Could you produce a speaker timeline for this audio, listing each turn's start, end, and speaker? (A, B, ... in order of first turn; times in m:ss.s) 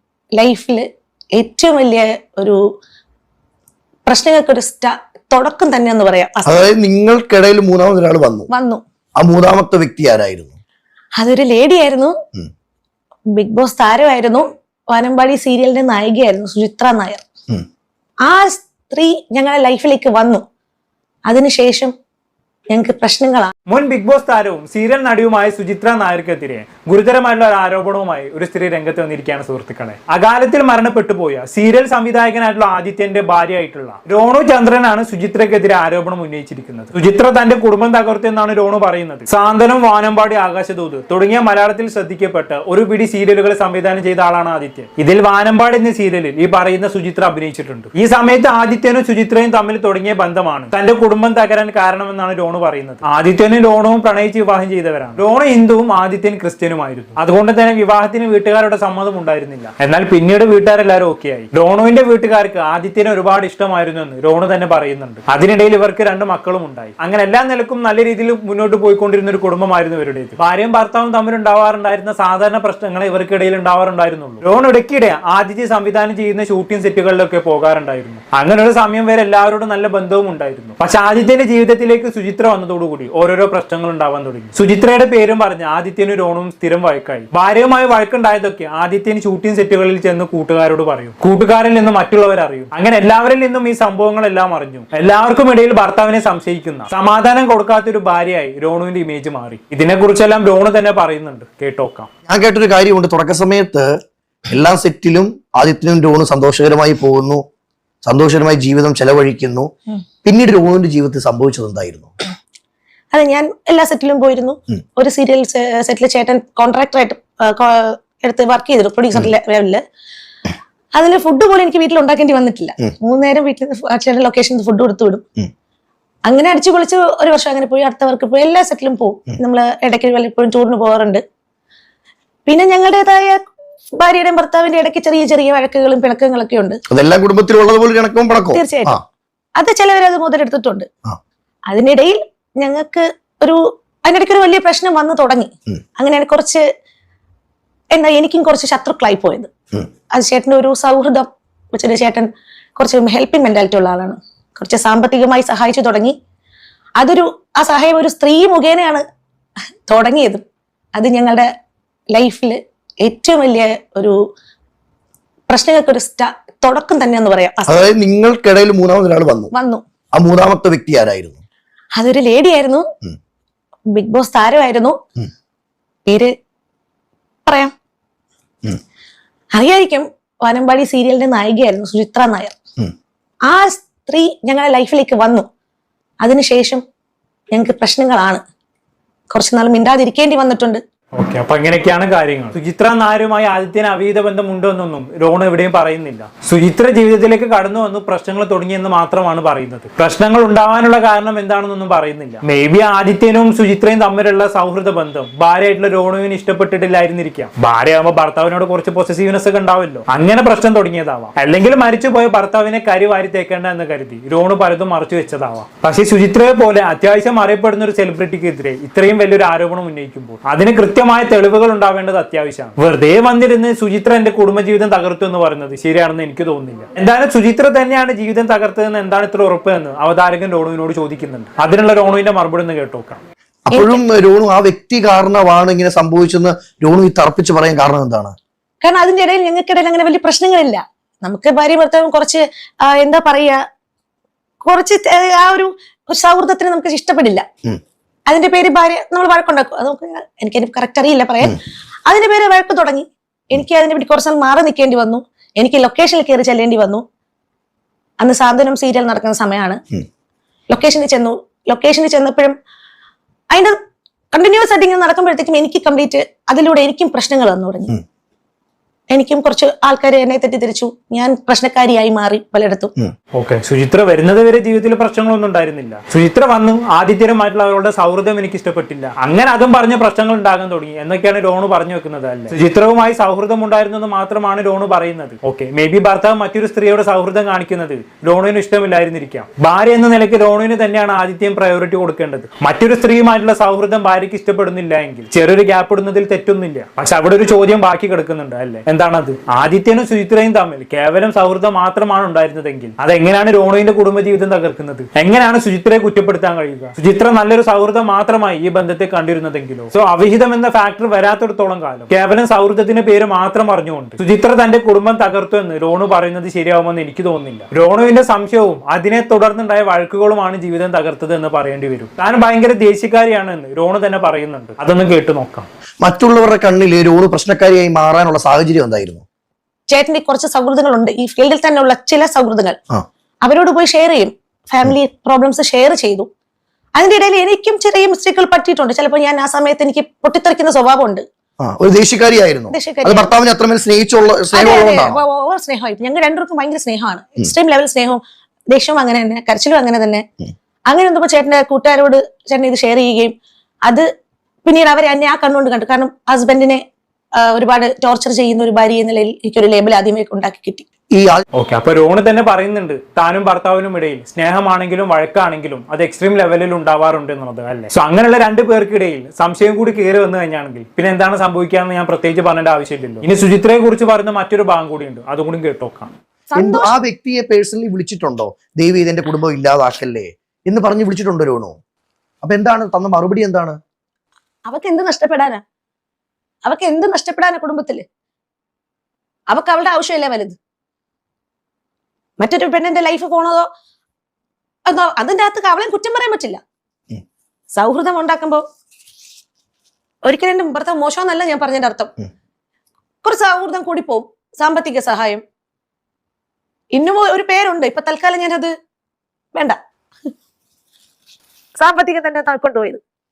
0:00.4-0:02.6 A
0:04.1-0:06.6 A
0:06.5-0:08.5 B
0:08.5-0:08.8 A
0:09.2-0:10.6 B
0:11.2-0:12.2 A
0:13.3-0:17.2 A
0:18.2-0:20.4 A
0:21.3-0:21.9 A
0:22.7-0:23.5 A
0:23.7-1:42.1 C
1:42.3-1:43.9 B
1:44.5-1:47.4 B
1:48.0-1:49.7 B
1:50.2-1:52.1 B
1:53.1-1:59.8 A
2:00.9-2:05.2 A
2:06.3-2:11.2 A
2:12.5-2:13.4 A
2:14.0-2:16.8 A
2:16.9-2:19.0 B
2:18.5-2:19.0 A
2:19.6-2:20.9 A
2:21.7-2:26.6 A
2:27.9-2:29.5 A
2:30.1-2:36.1 A
2:37.0-2:39.0 A
2:39.9-2:40.4 A
2:41.0-2:41.5 A
2:42.1-2:44.2 A
2:45.5-2:47.8 A
2:47.7-2:49.5 B
2:49.5-2:49.8 A
2:50.1-2:51.4 B
2:52.0-2:52.9 A
2:53.9-2:55.0 A
2:56.1-2:56.3 A
2:57.5-2:57.7 A
2:59.5-3:02.6 A
3:03.5-3:05.5 A
3:06.2-3:06.8 A
3:07.5-3:08.4 A
3:09.3-3:10.8 A
3:11.2-3:53.2 C
3:53.7-3:58.3 B
3:53.7-3:54.0 A
3:58.8-4:03.6 A
4:04.6-4:07.4 A
4:08.3-4:17.0 A
4:18.2-4:19.8 A
4:20.7-4:22.6 A
4:23.5-4:23.8 A
4:24.3-4:28.0 A
4:29.1-4:32.9 A
4:33.3-5:25.7 C
5:26.0-5:29.2 B
5:29.9-5:32.8 A
5:33.4-5:36.3 A
5:37.0-5:41.2 A
5:41.6-5:45.2 B
5:42.7-5:43.3 A
5:44.5-5:48.2 A
5:48.7-5:50.2 A
5:50.9-5:53.3 A
5:54.6-5:56.8 A
5:57.4-6:00.9 A
6:01.1-6:01.4 B
6:01.5-6:16.1 C
6:16.5-6:17.0 A
6:16.6-6:21.8 B
6:22.4-6:23.8 B
6:24.7-6:25.6 A
6:26.6-6:28.0 A
6:29.5-6:30.6 A
6:32.4-6:33.7 A
6:34.9-6:36.6 A
6:37.7-6:38.6 A
6:40.2-6:42.1 A
6:43.2-6:45.4 A
6:46.9-6:48.7 A
6:51.8-6:53.0 A